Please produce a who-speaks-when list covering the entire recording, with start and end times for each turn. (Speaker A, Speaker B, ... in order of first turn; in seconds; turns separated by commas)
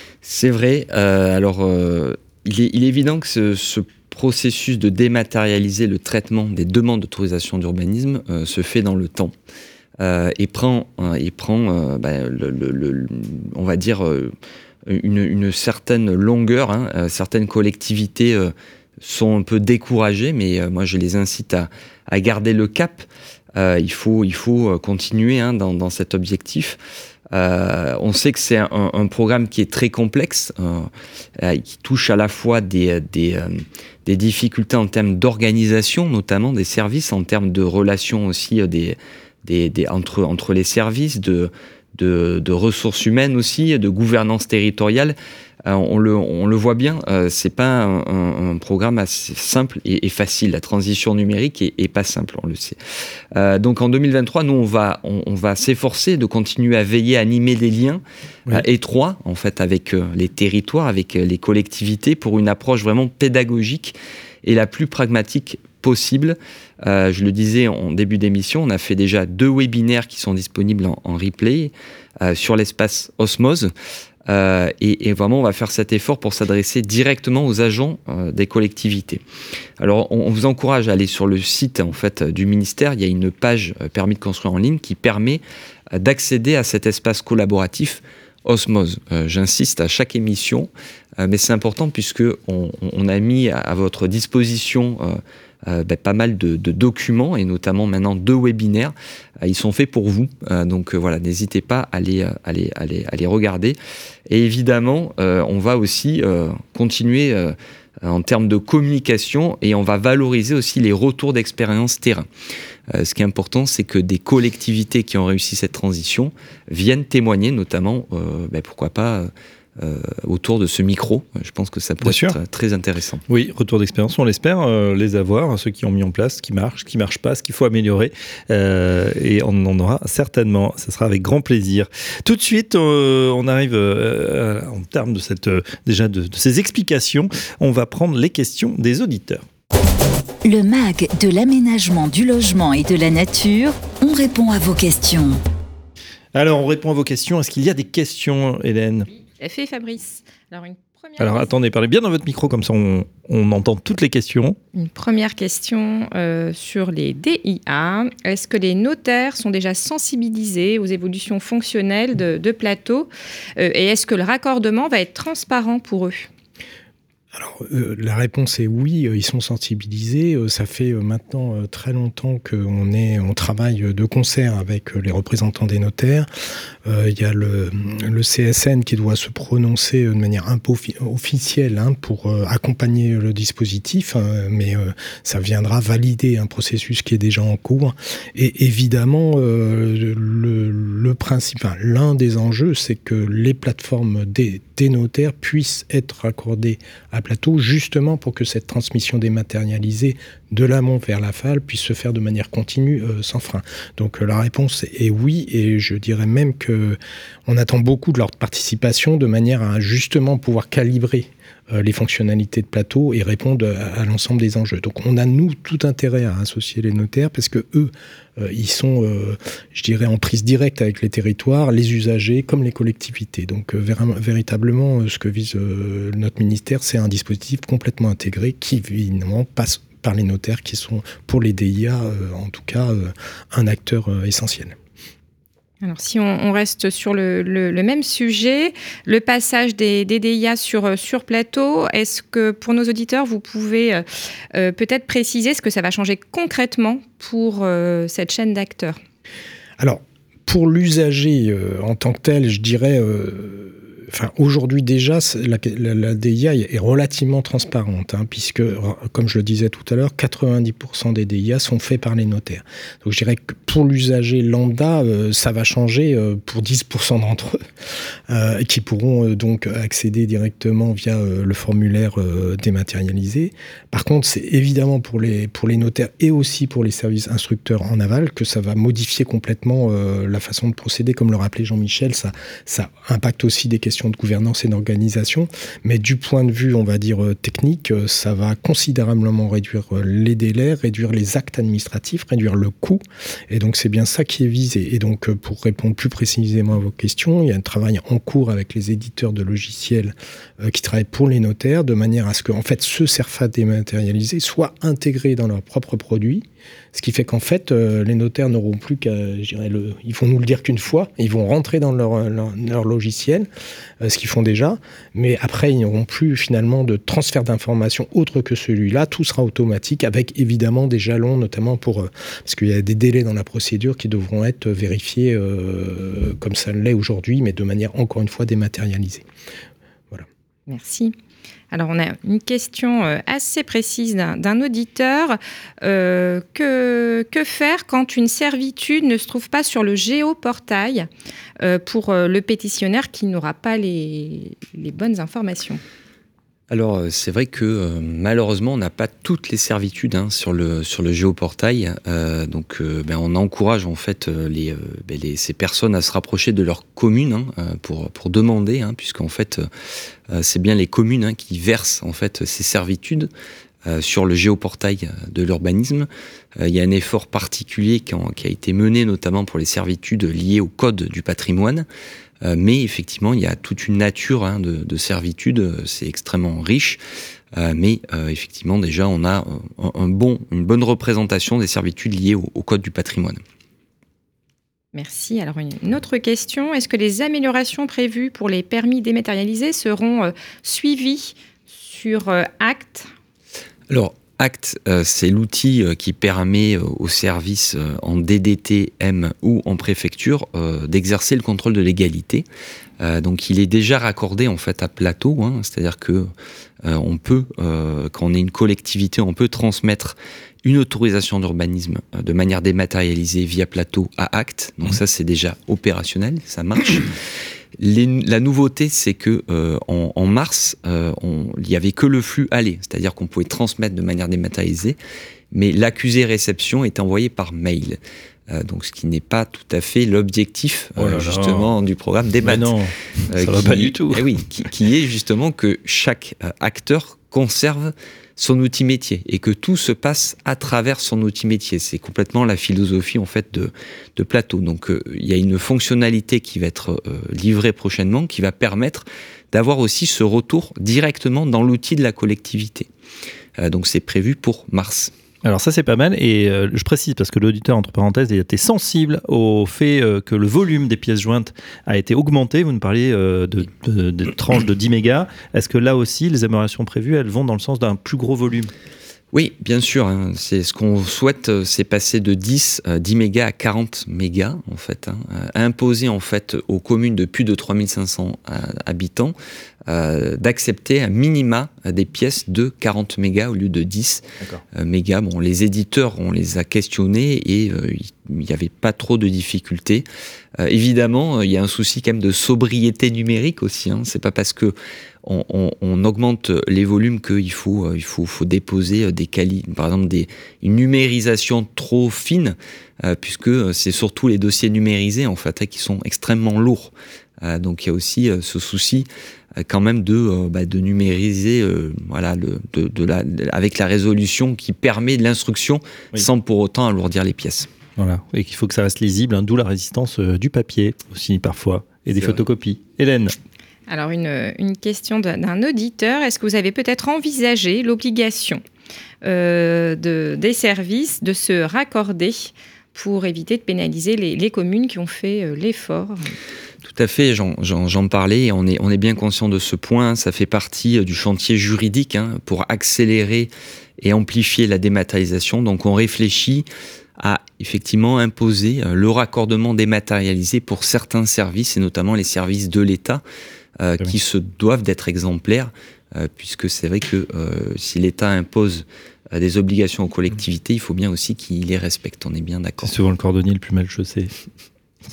Speaker A: 0.2-9.3, Speaker A: 10.0-14.3, Speaker A: 14.9-26.8, Speaker A: 27.3-52.8, Speaker A: 53.3-73.7, Speaker A: 74.3-79.2, Speaker A: 79.8-85.4, Speaker A: 85.9-103.8, Speaker A: 104.3-112.3, Speaker A: 112.9-123.2, Speaker B: 122.0-122.4, Speaker B: 123.3-139.4, Speaker C: 140.4-145.4, Speaker B: 146.3-149.1, Speaker D: 149.4-151.5, Speaker B: 151.2-154.6, Speaker D: 154.8-166.3, Speaker E: 167.3-176.3, Speaker E: 176.8-234.8, Speaker D: 235.8-249.0, Speaker E: 249.8-267.6, Speaker E: 268.3-313.5, Speaker E: 314.0-329.2, Speaker D: 330.7-331.1, Speaker D: 331.7-341.1, Speaker D: 341.6-345.8, Speaker A: 346.7-359.7, Speaker A: 360.3-363.3, Speaker A: 363.9-371.9, Speaker A: 372.4-377.0, Speaker A: 377.5-383.4, Speaker D: 384.9-393.1, Speaker A: 393.9-402.5, Speaker A: 403.0-406.3, Speaker A: 406.8-417.2, Speaker A: 417.8-425.0, Speaker A: 425.5-432.8, Speaker B: 431.0-431.7, Speaker B: 432.4-434.2, Speaker A: 433.3-452.9, Speaker A: 453.6-455.1, Speaker B: 455.4-468.7, Speaker A: 469.3-479.4, Speaker A: 479.9-490.1, Speaker A: 490.6-517.7, Speaker B: 518.0-523.4, Speaker A: 522.1-522.4, Speaker D: 523.9-528.6, Speaker D: 529.2-536.3, Speaker A: 536.8-546.7, Speaker A: 547.2-553.2, Speaker A: 553.8-563.0, Speaker B: 562.8-564.3